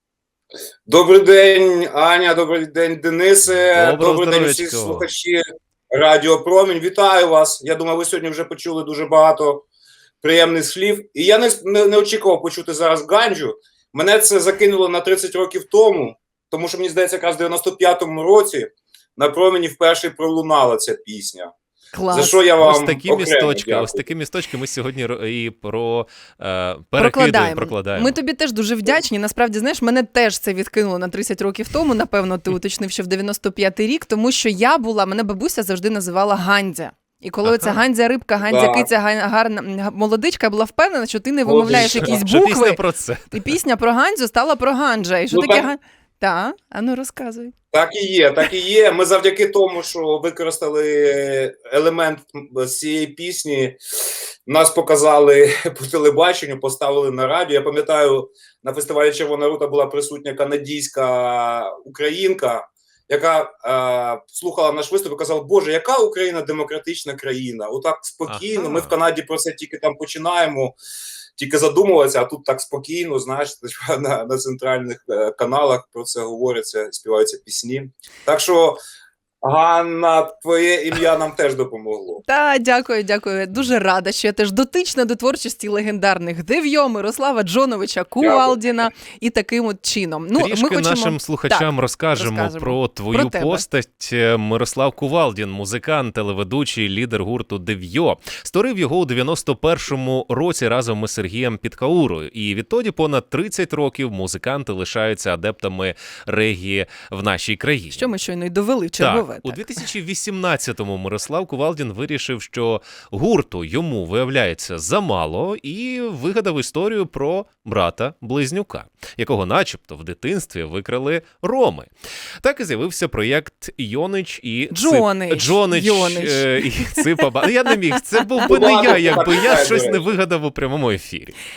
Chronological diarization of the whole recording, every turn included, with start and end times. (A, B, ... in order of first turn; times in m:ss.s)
0:00.9-0:05.4 A
0:03.7-0:05.1 B
0:05.9-0:09.6 A
0:10.2-0:21.5 A
0:21.9-0:22.4 C
0:22.1-0:24.1 A
0:22.6-0:28.2 B
0:27.0-0:47.5 C
0:37.4-0:37.8 B
0:38.4-0:38.9 A
0:41.4-0:42.2 A
0:41.7-0:43.5 B
0:45.3-0:45.7 A
0:47.7-0:53.8 A
0:54.4-1:10.8 A
1:08.3-1:08.9 B
1:11.4-1:18.8 A
1:19.4-1:22.2 A
1:22.2-1:33.6 C
1:28.2-1:28.6 A
1:30.4-1:48.1 B
1:47.9-1:49.6 C
1:49.0-2:11.4 B
2:04.7-2:07.0 C
2:08.4-2:10.1 A